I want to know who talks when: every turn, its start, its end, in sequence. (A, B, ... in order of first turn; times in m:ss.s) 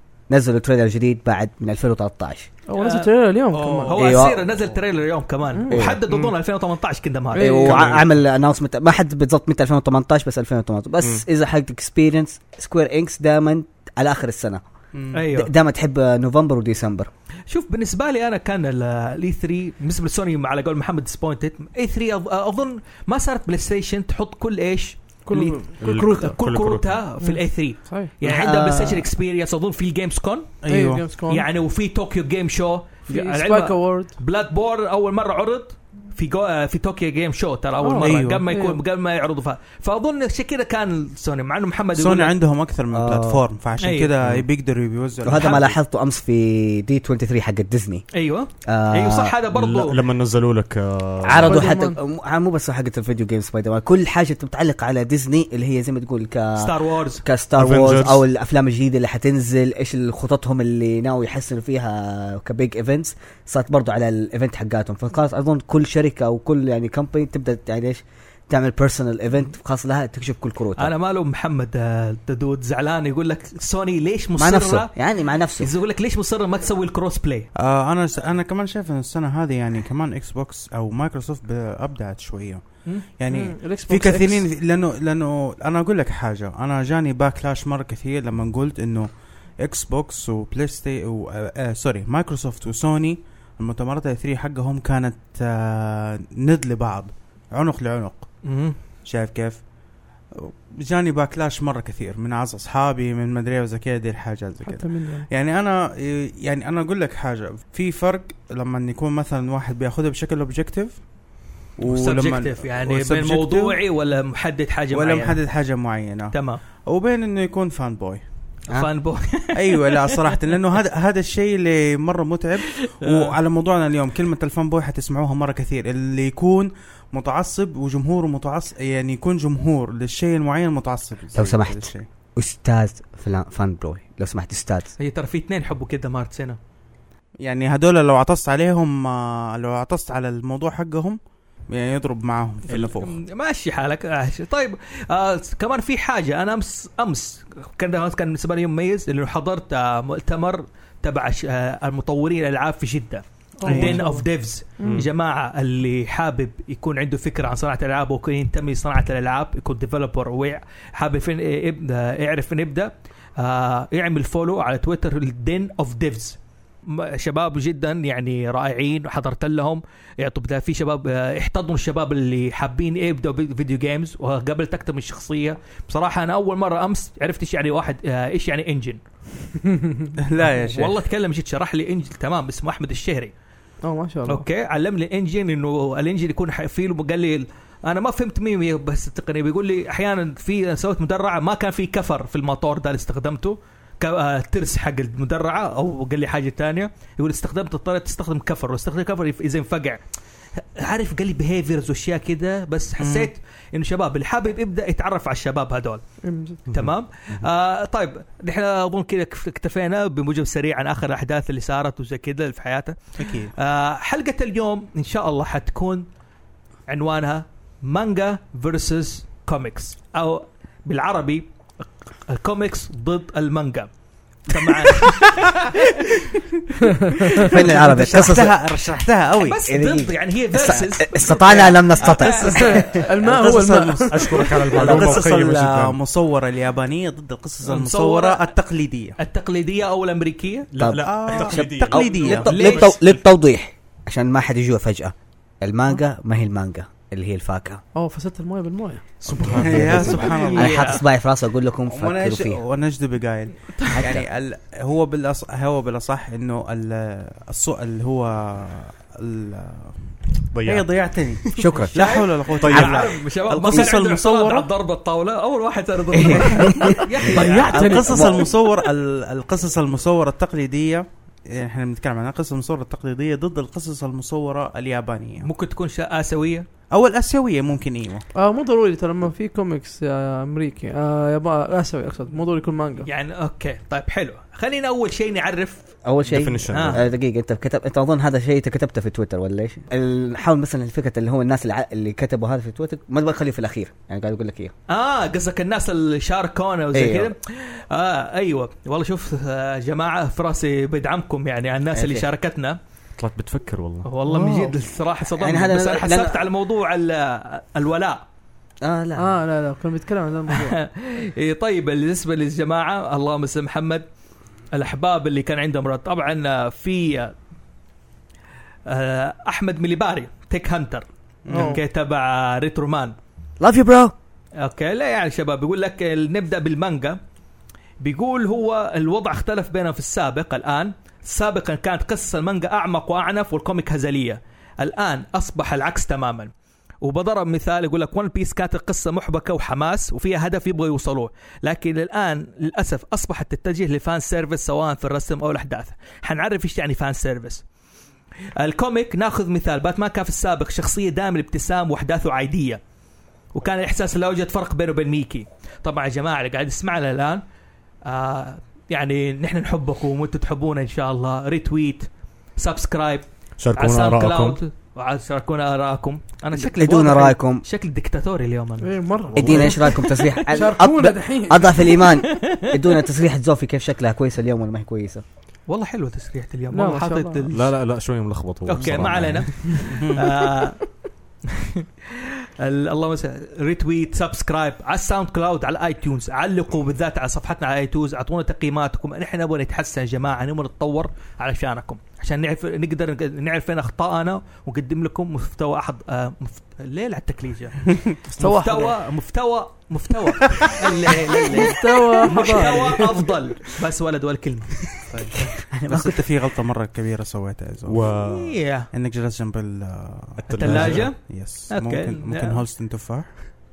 0:00.3-0:02.5 A
0:02.7-0:04.0 B
0:02.8-0:03.1 C
0:03.5-0:04.0 D
0:03.9-0:08.1 C
0:04.0-0:04.4 A
0:05.5-0:05.9 B
0:05.7-0:06.0 A
0:07.3-0:07.9 B
0:07.4-0:14.6 A
0:14.9-0:15.2 D
0:15.1-0:15.5 C
0:15.3-0:17.1 A
0:17.5-0:30.5 C
0:25.3-0:26.4 B
0:25.8-0:26.9 E
0:27.2-0:28.1 B
0:28.2-0:29.1 A
0:30.6-0:31.0 D
0:30.7-0:31.5 B
0:31.3-0:42.3 C
0:33.1-0:34.2 B
0:37.8-0:38.8 B
0:38.0-0:38.4 D
0:42.0-0:45.7 D
0:42.9-0:43.4 A
0:43.8-0:44.1 C
0:45.2-0:48.1 A
0:45.4-0:45.6 C
0:48.1-0:50.0 C
0:48.6-0:49.4 A
0:49.5-0:51.8 E
0:51.2-1:10.9 A
0:51.4-0:52.0 B
0:56.6-0:57.2 C
0:57.6-0:58.2 E
1:10.8-1:14.9 C
1:14.4-1:15.7 A
1:15.6-1:17.5 C
1:17.6-1:22.6 D
1:23.2-1:29.1 D
1:23.3-1:24.4 B
1:29.6-1:38.3 D
1:38.4-1:38.8 C
1:39.0-1:39.6 D
1:40.3-1:53.8 D
1:44.6-1:45.3 B
1:51.9-1:55.4 C
1:54.9-1:58.2 D
1:56.3-1:56.6 C
1:58.7-2:00.1 C
1:59.5-2:12.1 D
2:02.7-2:03.3 C
2:11.4-2:14.9 A
2:15.0-2:16.6 C
2:17.4-2:23.2 D
2:22.7-2:59.0 C
2:33.6-2:34.3 B
2:33.7-2:34.0 D
2:34.8-2:35.0 B
2:34.8-2:35.1 E
2:59.6-3:00.1 B
3:00.2-3:01.0 D
3:00.7-3:03.3 C
3:03.8-3:04.4 B
3:04.3-3:20.0 C
3:20.6-3:26.0 C
3:23.0-3:23.3 D
3:26.2-3:26.7 B
3:26.7-3:33.0 C
3:33.2-3:33.5 D
3:33.6-3:36.1 C
3:36.9-3:41.5 C
3:42.3-3:43.9 C
3:44.5-3:46.0 C
3:47.3-3:49.6 D
3:47.4-3:48.6 A
3:49.4-3:53.0 C
3:49.7-3:52.9 A
3:52.0-3:59.2 D
3:52.6-3:54.7 B
3:54.1-3:56.0 E
3:57.6-3:58.4 C
3:59.2-4:00.8 C
4:00.7-4:02.7 E
4:00.8-4:07.8 A
4:01.0-4:02.9 D
4:02.5-4:03.1 C
4:08.0-4:09.2 B
4:09.2-4:10.3 E
4:09.4-4:11.0 D
4:09.5-4:12.6 A
4:09.6-4:11.0 C
4:11.9-4:20.0 D
4:14.0-4:14.3 A
4:20.5-4:20.9 E
4:20.6-4:24.7 D
4:21.6-4:22.0 A
4:21.9-4:28.2 C
4:22.6-4:23.0 E
4:26.1-4:28.4 A
4:27.3-4:28.5 B
4:27.7-4:35.5 D
4:35.4-4:36.7 C
4:36.9-4:38.3 D
4:38.4-4:43.1 B
4:43.1-4:45.8 C
4:46.0-4:54.7 A
4:46.3-4:47.1 E
4:46.7-4:47.0 C
4:54.9-5:02.8 C
4:56.9-4:57.3 A
5:01.9-5:02.3 A
5:03.2-5:04.1 E
5:04.0-5:08.2 C
5:04.3-5:06.5 A
5:08.8-5:09.3 A
5:09.2-5:10.8 B
5:10.5-5:14.1 C
5:14.7-5:17.4 C
5:18.9-5:23.2 C
5:21.5-5:21.8 D
5:21.5-5:21.8 B
5:23.6-5:24.1 A
5:24.6-5:27.2 C
5:28.0-5:47.6 C
5:48.6-5:52.8 C
5:53.5-5:57.4 C
5:58.0-6:03.2 C
6:03.6-6:04.6 E
6:03.8-6:10.4 C
6:06.8-6:07.6 A
6:08.8-6:10.0 B
6:09.3-6:15.2 A
6:09.4-6:09.7 E
6:10.5-6:12.0 B
6:12.0-6:12.8 C
6:15.7-6:17.7 C
6:16.7-6:17.5 B
6:17.5-6:19.8 E
6:18.7-6:20.8 C
6:19.8-6:20.2 D
6:20.2-6:20.7 B
6:21.5-6:44.8 C
6:38.3-6:39.0 B
6:41.4-6:43.3 B
6:45.1-6:45.3 D
6:45.4-6:46.3 A
6:45.9-6:48.0 D
6:47.9-6:48.6 E
6:48.3-6:48.9 C
6:48.9-6:53.4 D
6:50.4-6:51.1 E
6:50.6-6:52.6 C